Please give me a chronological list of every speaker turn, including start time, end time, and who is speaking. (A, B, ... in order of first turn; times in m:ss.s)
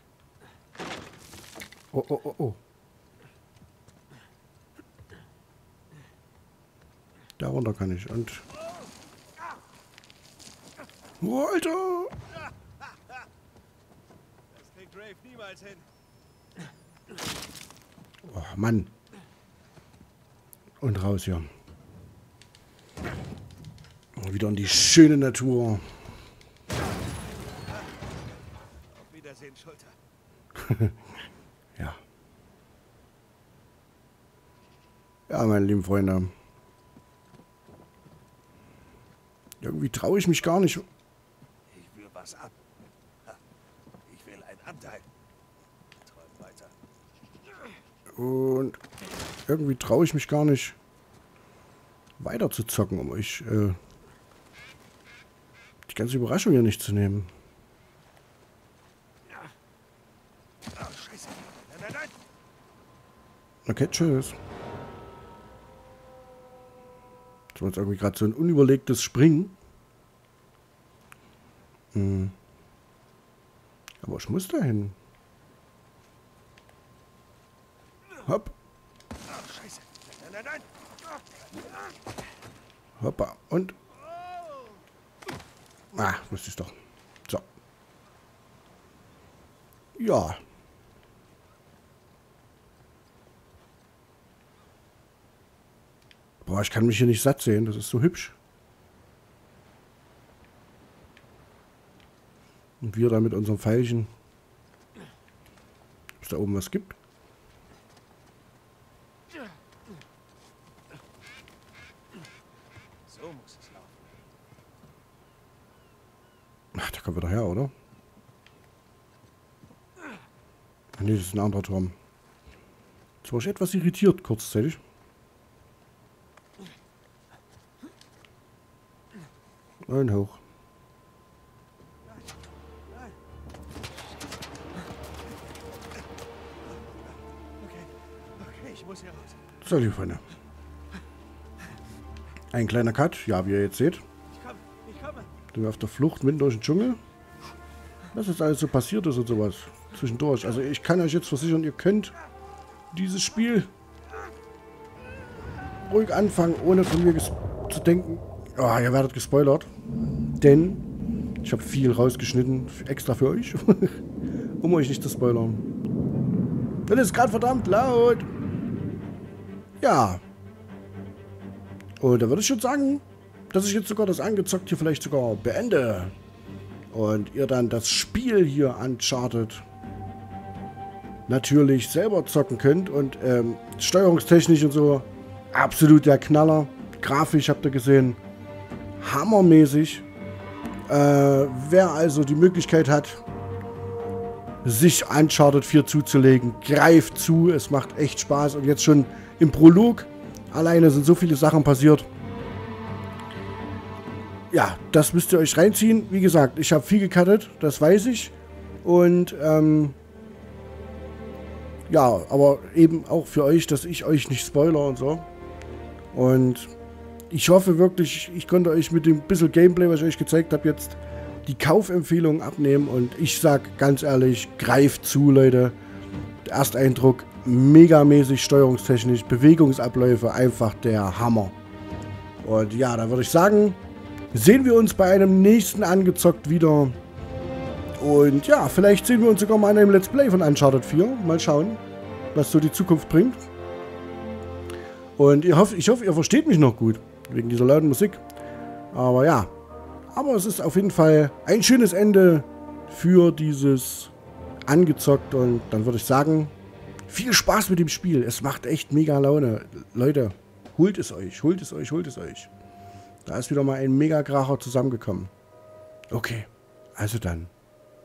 0:01.9-0:02.6 A
0:07.4-0:08.4 A
0:08.6-0:08.9 B
0:11.2-0:12.2 A
0:12.3-0:13.3 B
0:14.5-0:15.9 B
0:18.2-0:18.9 A
0:20.8-0:21.5 A
0:24.2-0:25.9 A
0:28.9-0:30.0 B
0:30.5-0:31.0 A
0:35.3-0:36.3 A
0:39.6-0:40.8 A
0:41.7-0:42.6 B
0:44.0-0:45.1 B
0:46.0-0:46.7 B
0:48.2-0:48.8 A
0:49.5-0:50.8 A
0:52.2-0:53.8 A
0:55.9-0:57.3 A
1:00.7-1:02.2 B
1:03.6-1:04.4 A
1:07.5-1:09.6 A
1:11.9-1:12.3 A
1:14.0-1:15.0 A
1:18.2-1:18.5 A
1:19.2-1:22.0 B
1:23.0-1:23.8 A
1:23.9-1:24.8 B
1:25.9-1:26.7 A
1:30.0-1:30.4 A
1:36.4-1:38.4 A
1:42.8-1:44.1 A
1:46.2-1:47.0 A
1:53.0-1:54.2 B
1:56.7-1:57.7 A
2:01.0-2:01.9 A
2:03.2-2:04.8 A
2:09.8-2:10.4 A
2:12.0-2:13.2 B
2:13.8-2:14.5 B
2:16.6-2:19.4 B
2:19.6-2:20.2 A
2:22.5-2:24.0 A
2:24.3-2:25.3 B
2:25.5-2:27.0 A
2:28.1-2:32.1 A
2:32.9-2:33.7 A
2:35.9-2:39.7 A
2:40.4-2:40.8 A
2:41.4-2:44.0 A
2:44.6-2:45.6 A
2:46.9-2:48.3 A
2:49.8-2:50.2 A
2:52.0-2:56.1 A
2:56.9-2:59.6 A
3:01.3-3:08.2 A
3:09.0-3:10.0 A
3:10.9-3:13.2 A
3:14.6-3:22.1 A
3:24.5-3:30.0 A
3:31.9-3:35.3 A
3:36.1-3:36.7 A
3:37.3-3:45.8 A
3:46.4-3:51.6 A
3:52.4-3:53.8 A
3:54.3-3:57.0 A
3:58.0-4:01.8 A
4:02.3-4:03.4 A
4:05.2-4:08.2 A
4:08.9-4:09.5 A
4:10.1-4:14.1 A
4:14.7-4:16.5 A
4:17.1-4:22.5 A
4:23.2-4:25.3 A
4:26.1-4:27.5 A